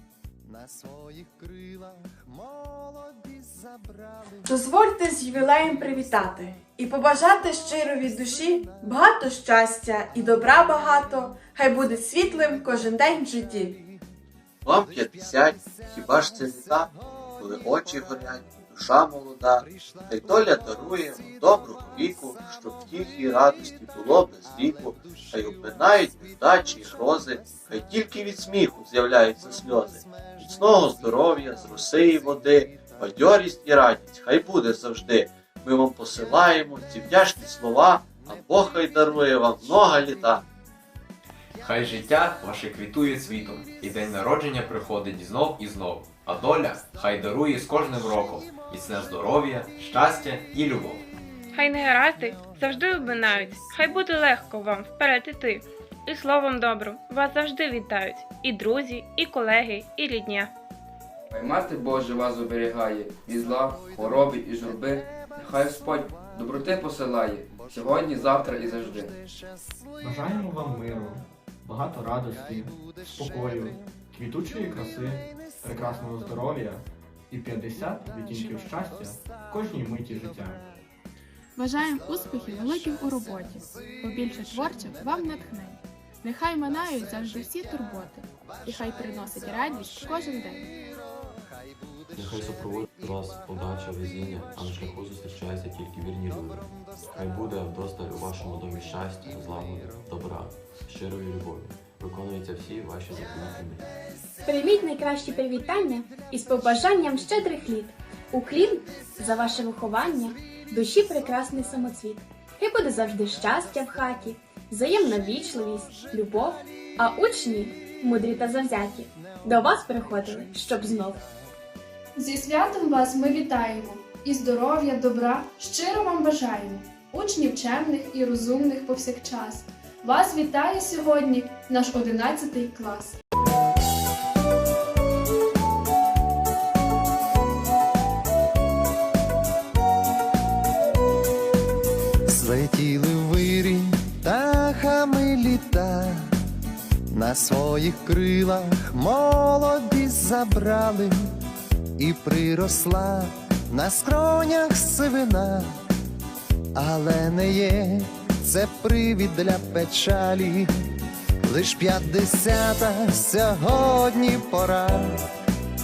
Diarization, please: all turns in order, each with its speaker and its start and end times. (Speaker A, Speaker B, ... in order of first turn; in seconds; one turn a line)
Speaker A: 0.5-4.3
Speaker B: 4.4-13.8
Speaker C: 14.6-40.4
Speaker D: 41.6-51.0
Speaker E: 51.5-60.5
Speaker F: 61.3-69.1
Speaker G: 70.0-80.6
Speaker H: 81.5-90.7
Speaker I: 92.1-103.9
Speaker J: 104.4-121.2
Speaker K: 122.2-133.1
Speaker A: 142.2-146.3
Speaker A: 147.1-151.2
Speaker A: 152.0-155.7
Speaker A: 156.7-160.7
Speaker A: 161.4-165.2